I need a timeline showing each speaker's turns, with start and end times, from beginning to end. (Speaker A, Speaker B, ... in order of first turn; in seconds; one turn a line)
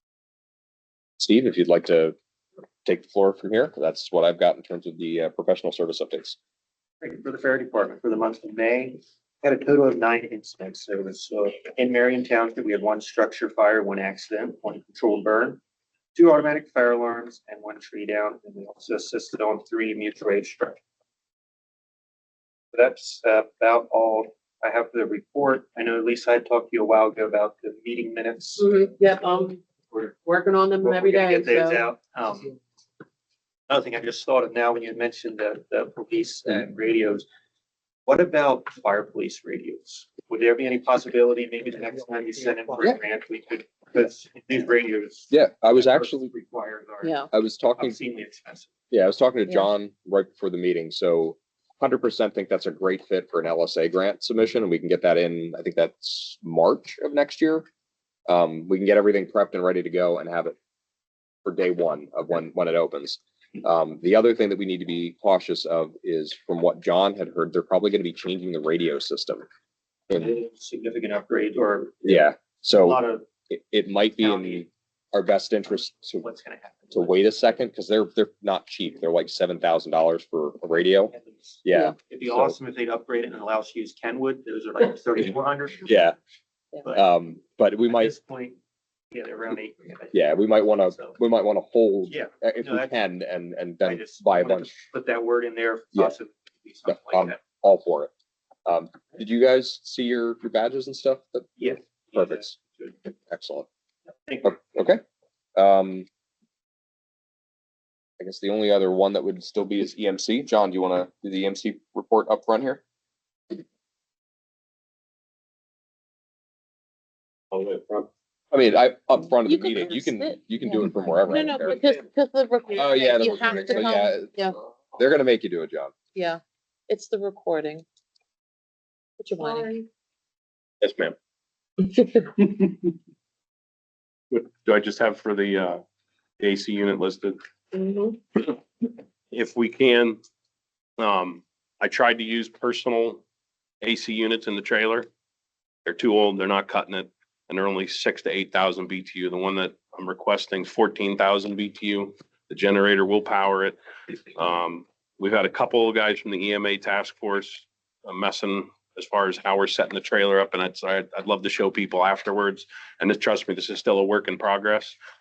Speaker A: 1.2-2.2
Speaker A: 2.9-6.4
Speaker B: 7.0-15.6
Speaker B: 16.1-20.8
Speaker B: 22.7-28.7
Speaker C: 28.6-29.6
Speaker B: 29.9-30.2
Speaker C: 30.2-31.8
Speaker B: 30.8-32.6
Speaker B: 33.7-37.3
Speaker B: 38.1-48.7
Speaker A: 45.3-46.3
Speaker C: 47.0-47.3
Speaker A: 47.3-48.0
Speaker A: 48.9-57.7
Speaker A: 58.3-60.6
Speaker A: 61.5-69.5
Speaker B: 70.1-73.3
Speaker A: 72.0-76.2
Speaker B: 74.2-74.7
Speaker B: 75.7-77.2
Speaker A: 76.9-82.5
Speaker B: 81.1-86.0
Speaker A: 85.8-86.2
Speaker B: 86.8-87.1
Speaker A: 86.9-88.1
Speaker B: 87.8-88.6
Speaker B: 89.1-91.2
Speaker A: 90.1-94.7
Speaker B: 92.1-93.0
Speaker B: 93.8-97.4
Speaker A: 96.9-98.1
Speaker A: 98.7-103.7
Speaker B: 101.6-103.0
Speaker B: 104.2-104.8
Speaker A: 104.4-105.0
Speaker A: 105.6-106.1
Speaker A: 108.2-112.8
Speaker D: 117.5-118.1
Speaker A: 118.5-121.8
Speaker C: 119.4-124.5
Speaker A: 122.7-125.9
Speaker C: 126.2-127.8
Speaker C: 129.2-129.8
Speaker D: 130.8-131.2
Speaker D: 132.4-132.7
Speaker D: 134.3-135.8
Speaker D: 136.4-137.4
Speaker C: 137.7-138.1
Speaker D: 139.3-140.2
Speaker D: 141.0-143.2
Speaker D: 143.8-145.1
Speaker D: 145.8-153.8
Speaker D: 154.3-165.0